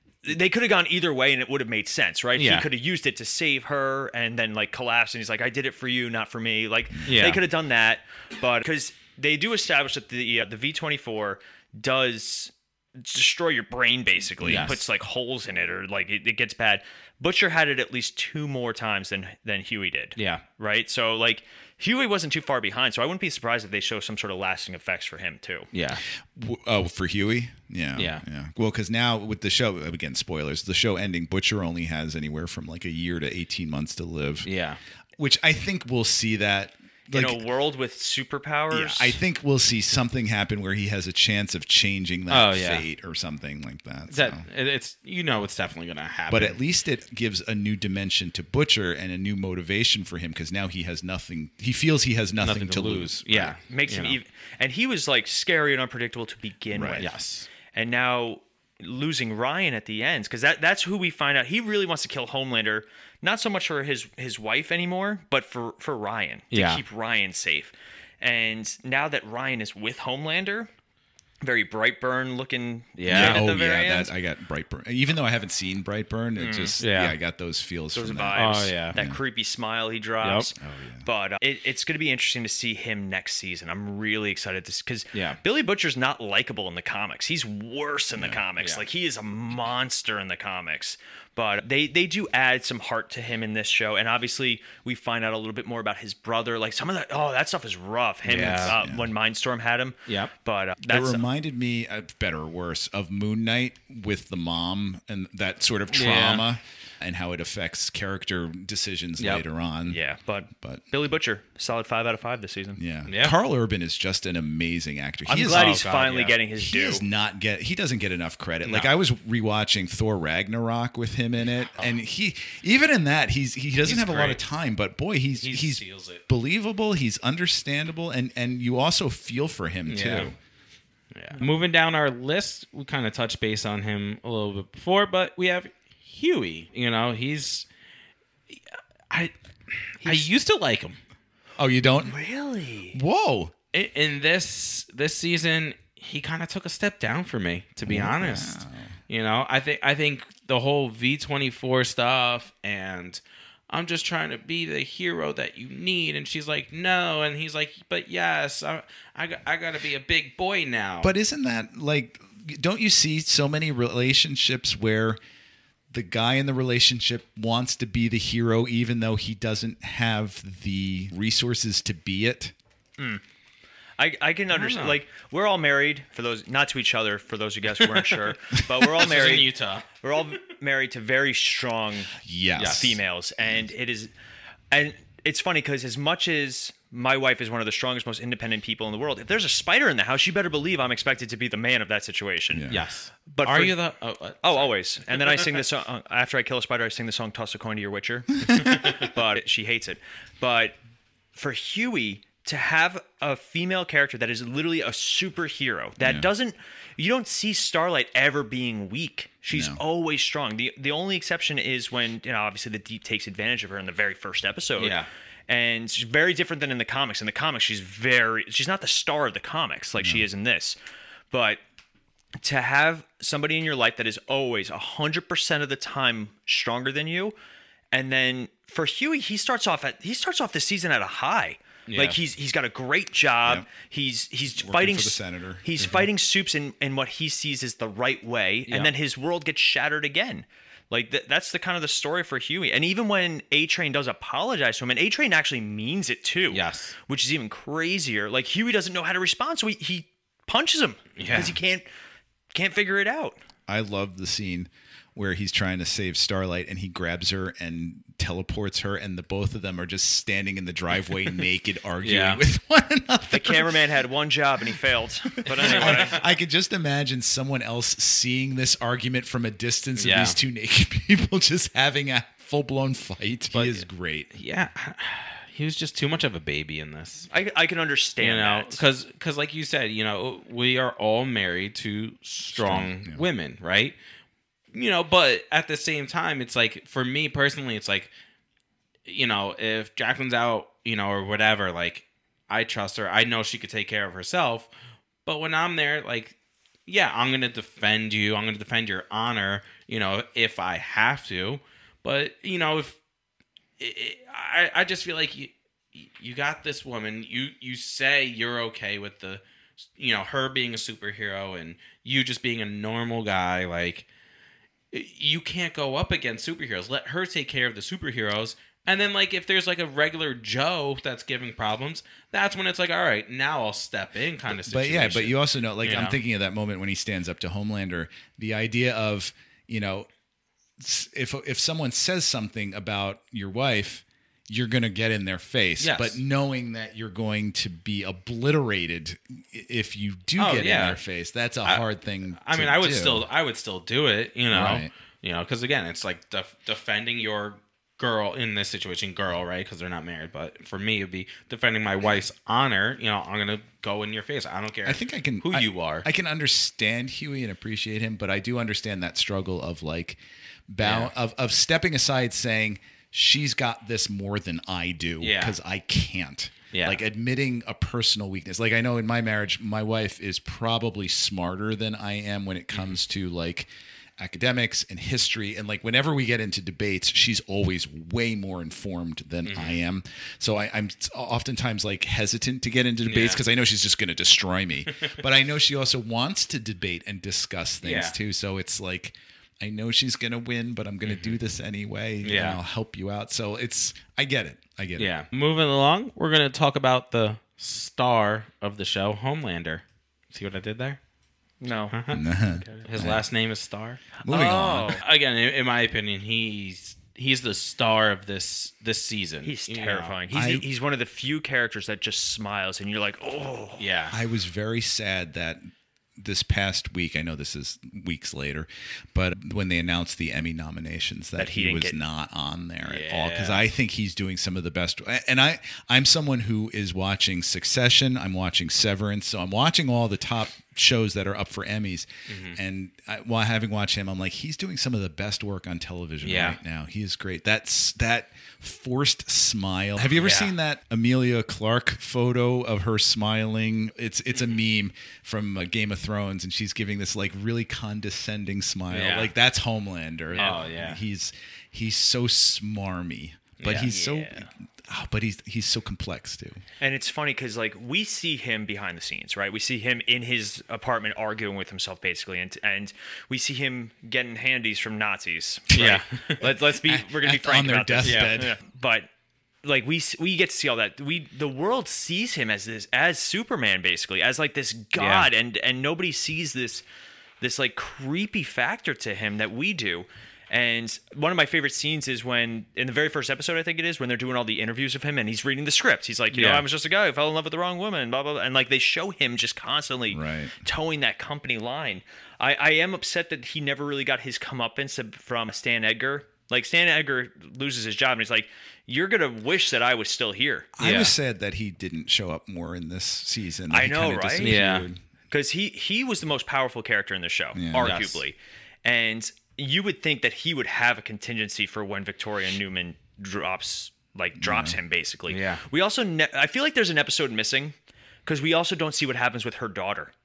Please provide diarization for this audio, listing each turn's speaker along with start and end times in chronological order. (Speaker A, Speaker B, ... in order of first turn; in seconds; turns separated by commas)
Speaker A: 0.2-25.7, Speaker B: 2.4-2.7, Speaker B: 7.1-7.4, Speaker C: 14.4-14.8, Speaker B: 14.4-14.8, Speaker B: 20.2-20.4, Speaker B: 25.7-26.0, Speaker C: 26.3-34.5, Speaker B: 28.0-28.2, Speaker B: 34.5-34.8, Speaker C: 35.2-37.4, Speaker A: 37.1-39.2, Speaker C: 38.7-44.5, Speaker B: 42.3-42.9, Speaker B: 44.1-46.6, Speaker C: 46.3-53.5, Speaker B: 52.4-54.2, Speaker A: 53.7-57.1, Speaker C: 56.7-57.1, Speaker B: 57.0-57.5, Speaker A: 57.7-70.7, Speaker B: 66.5-66.8, Speaker A: 71.4-74.1, Speaker B: 73.0-73.5, Speaker C: 73.1-79.2, Speaker A: 76.4-76.8, Speaker B: 76.8-77.2, Speaker A: 77.9-101.2, Speaker B: 78.3-79.0, Speaker B: 80.2-80.5, Speaker C: 80.6-81.1, Speaker B: 85.1-85.4, Speaker C: 88.2-88.4, Speaker B: 88.6-88.8, Speaker B: 98.2-98.8, Speaker C: 98.5-99.1, Speaker B: 100.1-100.3, Speaker C: 100.9-110.0, Speaker B: 105.9-106.4, Speaker B: 109.2-109.4, Speaker A: 109.9-112.8, Speaker C: 110.6-110.8, Speaker C: 112.8-115.8, Speaker B: 113.1-113.3, Speaker A: 115.3-117.0, Speaker B: 115.5-116.4, Speaker C: 116.6-130.3, Speaker B: 118.7-118.9, Speaker B: 123.8-124.4, Speaker B: 125.4-126.2, Speaker B: 129.9-130.3, Speaker B: 131.1-137.7, Speaker B: 138.5-141.0, Speaker A: 140.0-140.3, Speaker C: 141.6-142.2, Speaker A: 142.0-143.0, Speaker C: 142.9-143.5, Speaker B: 143.7-161.1, Speaker C: 147.9-148.9, Speaker C: 161.0-165.2, Speaker C: 165.9-172.5, Speaker A: 174.0-184.1, Speaker B: 174.5-175.0, Speaker B: 177.8-179.9, Speaker C: 182.2-183.0, Speaker B: 182.6-183.0, Speaker A: 184.7-193.8, Speaker C: 192.5-192.8, Speaker B: 192.7-195.5, Speaker A: 194.4-200.8, Speaker C: 198.5-198.7, Speaker A: 201.3-220.8, Speaker C: 206.0-206.3, Speaker C: 209.5-209.8, Speaker B: 214.8-215.1, Speaker A: 221.3-221.6, Speaker A: 222.4-227.3, Speaker A: 227.9-251.9, Speaker B: 231.9-232.2, Speaker C: 234.6-235.7, Speaker B: 235.8-236.1, Speaker B: 246.5-247.0, Speaker B: 251.2-251.6, Speaker A: 252.5-253.4, Speaker C: 253.7-263.8, Speaker B: 262.0-262.4, Speaker A: 263.3-266.2, Speaker C: 265.4-274.3, Speaker B: 265.6-266.2, Speaker B: 270.0-270.4, Speaker B: 273.5-277.3, Speaker A: 277.3-278.8, Speaker B: 278.2-283.9, Speaker C: 282.5-283.2, Speaker B: 284.7-288.1, Speaker B: 289.1-294.7, Speaker B: 295.2-296.4, Speaker B: 296.9-303.0, Speaker B: 303.8-309.4, Speaker B: 310.0-314.1, Speaker B: 314.9-326.2, Speaker C: 324.5-330.1, Speaker C: 330.8-343.3, Speaker B: 335.8-336.2, Speaker B: 340.4-341.0, Speaker B: 342.4-356.1, Speaker C: 344.5-344.9, Speaker C: 354.9-395.1, Speaker B: 360.8-361.1, Speaker B: 365.2-365.6, Speaker B: 366.7-367.0, Speaker B: 372.7-373.0, Speaker B: 379.5-379.8, Speaker B: 383.0-383.4, Speaker B: 387.8-388.1, Speaker B: 391.1-391.4, Speaker B: 392.2-392.6, Speaker B: 395.0-401.0, Speaker A: 401.6-402.0, Speaker B: 401.9-402.2, Speaker C: 402.1-403.2, Speaker A: 402.5-402.9, Speaker B: 402.8-404.1, Speaker C: 404.2-405.0, Speaker A: 404.3-405.0, Speaker B: 404.9-410.1, Speaker A: 409.4-413.9, Speaker C: 410.3-410.7, Speaker B: 413.8-414.2, Speaker C: 414.1-415.6, Speaker C: 416.2-456.6, Speaker A: 421.4-422.0, Speaker B: 422.8-423.6, Speaker B: 432.3-432.6, Speaker B: 436.2-436.6, Speaker B: 440.1-440.5, Speaker B: 448.9-449.3, Speaker B: 450.4-451.0, Speaker B: 453.6-454.3, Speaker A: 453.9-454.2, Speaker A: 456.8-469.1, Speaker B: 465.8-466.4, Speaker C: 466.6-468.6, Speaker B: 468.0-468.4, Speaker A: 469.6-476.8, Speaker B: 475.0-475.3, Speaker A: 477.4-500.7, Speaker B: 486.3-486.6, Speaker C: 490.1-490.6, Speaker C: 500.8-505.0, Speaker B: 500.8-501.1, Speaker A: 503.7-504.6, Speaker B: 504.4-504.9, Speaker A: 505.3-517.8, Speaker C: 507.6-507.9, Speaker B: 507.8-508.2, Speaker C: 514.4-514.8, Speaker B: 515.3-515.6, Speaker A: 518.3-520.1